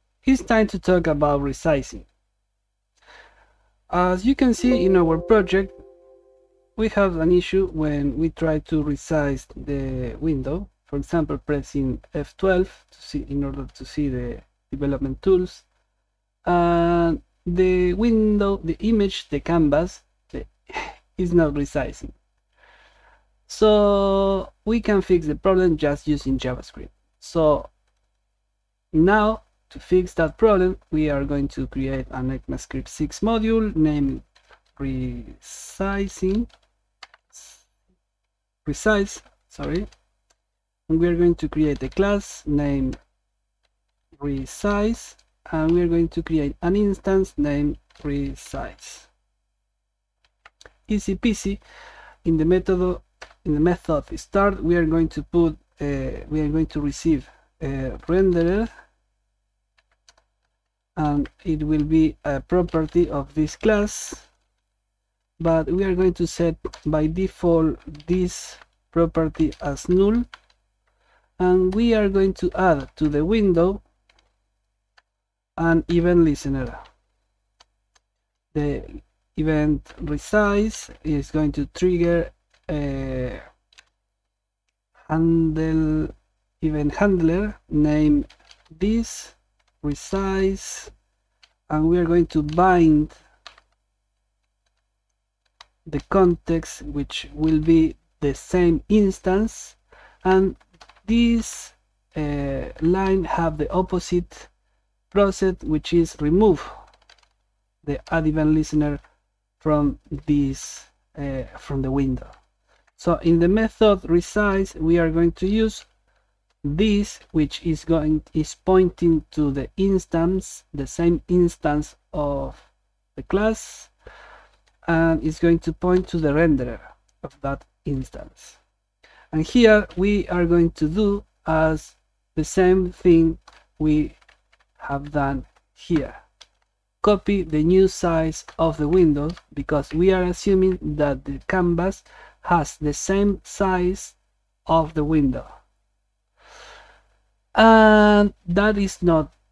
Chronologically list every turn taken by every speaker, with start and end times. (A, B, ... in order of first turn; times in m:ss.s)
0:00.2-0:02.1 A
0:03.9-0:05.8 A
0:06.8-0:15.7 A
0:16.5-0:22.2 A
0:23.5-0:27.7 A
0:28.9-0:34.2 A
0:34.8-0:36.5 A
0:37.3-0:37.6 A
0:38.6-0:39.9 A
0:40.9-0:43.0 A
0:44.2-0:49.1 A
0:50.9-0:51.6 A
0:52.2-0:58.7 A
1:01.0-1:04.3 A
1:05.4-1:10.3 A
1:11.4-1:13.8 A
1:15.6-1:16.8 A
1:18.5-1:23.4 A
1:25.1-1:30.9 A
1:31.7-1:33.2 A
1:35.9-1:44.5 A
1:45.1-1:46.7 A
1:47.8-1:49.0 A
1:49.6-1:52.3 A
1:53.0-1:55.9 A
1:56.6-2:03.9 A
2:04.9-2:08.6 A
2:09.3-2:14.2 A
2:14.8-2:16.2 A
2:17.0-2:25.5 A
2:27.6-2:29.3 A